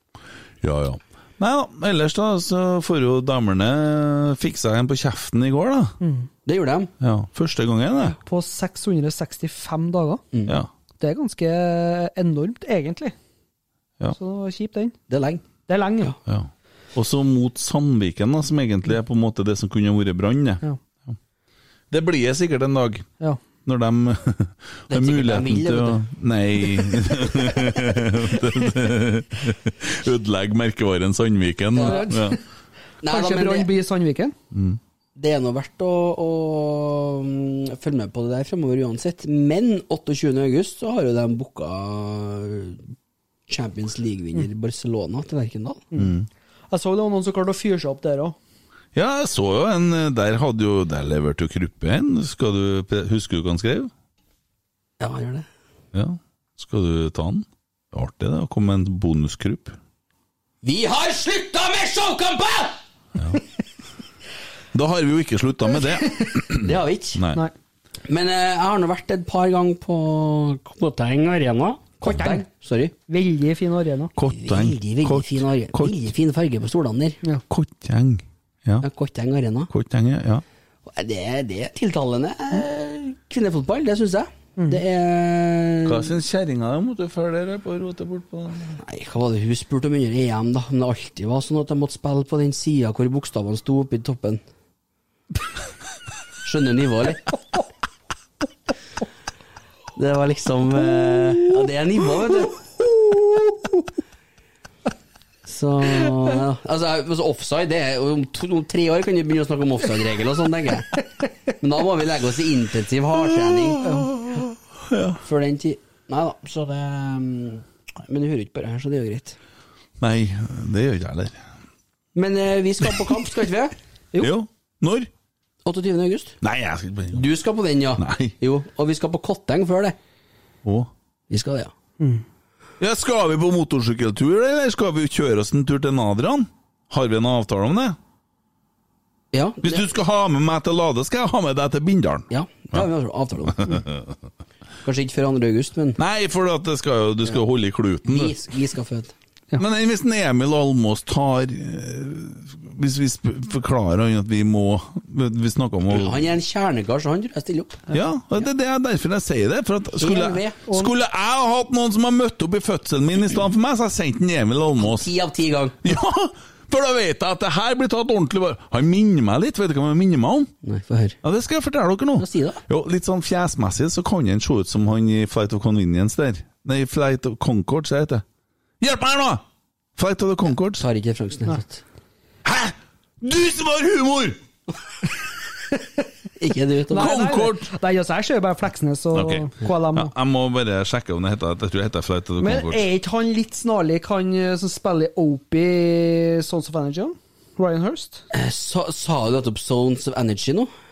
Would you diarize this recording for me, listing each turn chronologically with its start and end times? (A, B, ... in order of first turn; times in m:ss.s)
0:00.6-0:05.9 A
0:06.0-0:06.3 B
0:06.4-0:06.9 C
0:07.0-0:08.2 A
0:08.2-0:10.2 B
0:11.0-0:13.1 B
0:14.1-0:15.0 B
0:15.1-0:15.4 C
0:15.7-0:16.2 B
0:16.2-0:21.1 A
0:21.9-0:23.0 A
0:23.6-0:32.4 A
0:24.9-0:26.0 C
0:31.8-0:32.0 C
0:31.8-0:32.4 B
0:33.0-0:33.7 C
0:33.0-0:34.3 B
0:34.5-0:34.8 A
0:35.2-0:42.8 C
0:43.5-0:45.8 C
0:45.9-0:46.3 A
0:46.7-0:48.4 B
0:48.9-0:53.9 A
0:55.0-0:55.5 C
0:55.9-0:59.8 A
1:00.6-1:02.8 C
1:04.7-1:07.4 A
1:06.6-1:07.2 C
1:08.1-1:12.9 C
1:12.0-1:12.4 B
1:13.1-1:14.1 B
1:14.2-1:16.0 A
1:14.3-1:17.2 C
1:17.5-1:18.8 A
1:18.8-1:19.7 C
1:19.7-1:20.4 A
1:20.9-1:26.1 C
1:24.6-1:24.8 B
1:25.8-1:28.8 A
1:28.8-1:34.4 C
1:36.4-1:37.3 C
1:40.0-1:42.6 C
1:42.8-1:43.8 B
1:45.4-1:50.9 C
1:51.6-1:53.8 C
1:53.5-1:54.3 A
1:53.8-1:54.2 B
1:54.9-1:55.2 A
1:55.2-1:59.4 C
2:00.0-2:01.4 A
2:02.1-2:03.7 C
2:04.2-2:05.1 A
2:05.6-2:06.4 C
2:06.4-2:07.2 A
2:07.1-2:10.0 C
2:08.0-2:08.3 A
2:10.6-2:10.9 A
2:11.3-2:11.7 C
2:12.8-2:18.0 A
2:19.3-2:19.8 C
2:19.6-2:22.8 A
2:22.3-2:23.8 C
2:23.5-2:24.1 A
2:24.8-2:26.0 C
2:26.0-2:28.4 A
2:28.0-2:29.1 C
2:29.6-2:36.2 A
2:35.9-2:37.8 C
2:37.9-2:45.1 A
2:40.0-2:40.6 C
2:44.8-2:45.8 C
2:45.8-2:50.5 A
2:50.6-2:51.2 C
2:51.2-2:58.2 A
2:52.2-2:52.6 C
2:58.8-2:59.4 A
3:00.0-3:00.8 A
3:00.8-3:01.8 C
3:02.4-3:04.4 A
3:06.4-3:07.1 C
3:06.9-3:10.1 B
3:06.9-3:07.7 A
3:09.1-3:12.8 A
3:12.4-3:18.2 B
3:18.3-3:20.7 C